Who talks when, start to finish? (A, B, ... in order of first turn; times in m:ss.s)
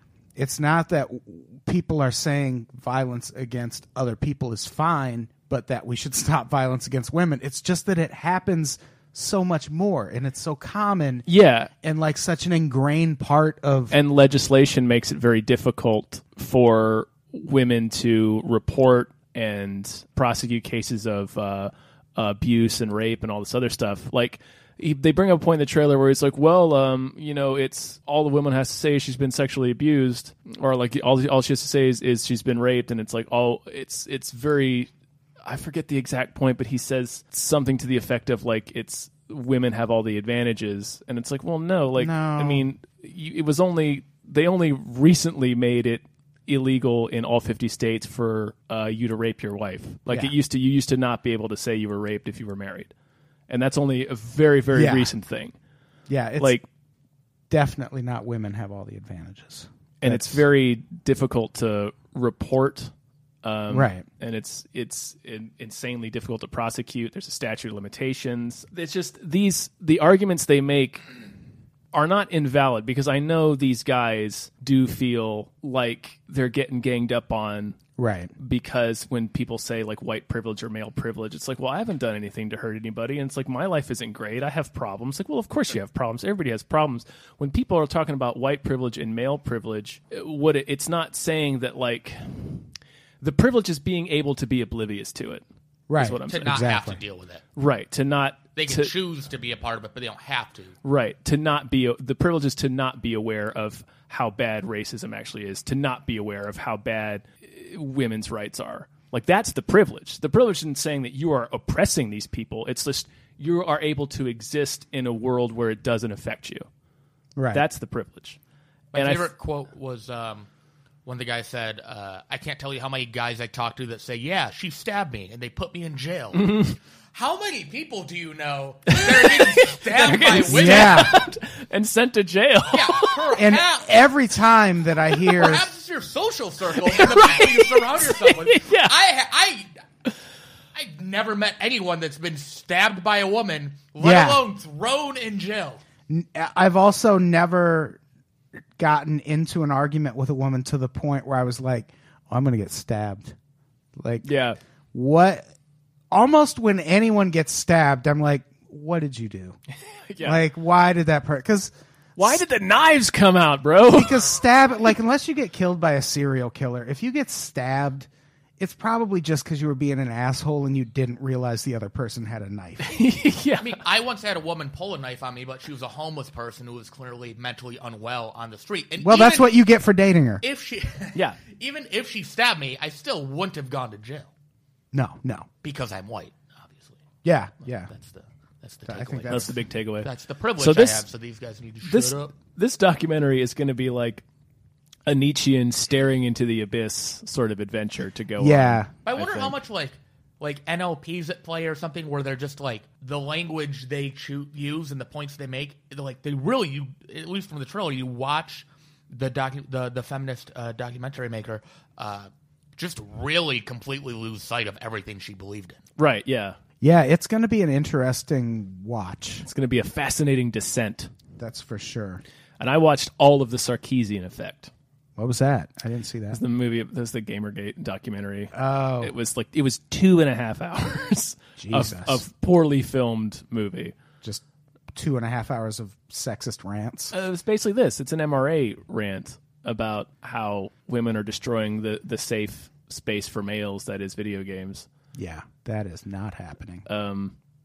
0:00.4-0:11.3 A
0:11.3-0:11.7 B
0:11.8-0:14.0 A
0:13.9-0:34.9 B
0:35.4-0:52.9 B
0:42.0-0:42.7 A
0:50.1-0:50.3 A
0:53.5-0:55.6 B
0:54.7-0:55.2 A
0:56.1-0:56.6 A
0:56.4-0:56.6 B
0:57.5-1:00.4 A
1:00.0-1:02.9 B
1:03.4-1:11.0 B
1:03.7-1:04.0 A
1:11.9-1:17.8 B
1:18.0-1:18.3 A
1:18.4-1:32.7 B
1:33.2-1:36.6 B
1:35.9-1:37.0 A
1:36.3-1:37.4 C
1:37.6-1:38.9 B
1:38.6-1:40.8 C
1:40.8-1:56.7 B
1:57.4-1:57.6 A
1:57.5-1:58.4 B
1:58.9-2:00.5 C
1:59.0-1:59.3 B
2:01.1-2:11.2 C
2:06.4-2:06.7 B
2:08.9-2:13.2 B
2:10.4-2:11.2 A
2:12.7-2:13.9 C
2:13.4-2:15.7 A
2:15.3-2:19.7 C
2:16.8-2:18.9 B
2:20.7-2:25.8 C
2:24.0-2:24.4 A
2:26.1-2:28.0 A
2:28.8-2:33.4 A
2:34.0-2:34.3 A
2:34.2-2:34.6 B
2:34.9-2:35.5 A
2:36.1-2:39.6 A
2:40.1-2:40.4 B
2:40.2-2:42.4 A
2:42.2-2:44.3 B
2:43.9-2:53.0 A
2:52.8-2:53.8 B
2:53.6-2:59.6 C
2:59.0-3:00.4 A
3:00.4-3:04.3 C
3:04.9-3:05.5 A
3:05.6-3:07.0 C
3:07.2-3:07.9 A
3:07.9-3:09.5 C
3:08.9-3:09.5 A
3:09.3-3:11.0 B
3:10.0-3:12.4 C
3:11.8-3:14.2 B
3:15.1-3:19.5 B
3:18.4-3:18.9 A
3:19.1-3:35.8 C
3:36.0-3:36.6 B
3:36.8-3:39.4 A
3:39.4-3:41.1 B
3:41.4-3:42.2 A
3:42.6-3:44.7 B
3:45.2-3:46.4 A
3:46.3-3:54.0 B
3:48.5-3:49.1 A
3:51.6-3:52.2 A
3:54.9-3:57.1 A
3:57.1-4:04.9 B
4:05.1-4:06.8 A
4:06.9-4:07.4 B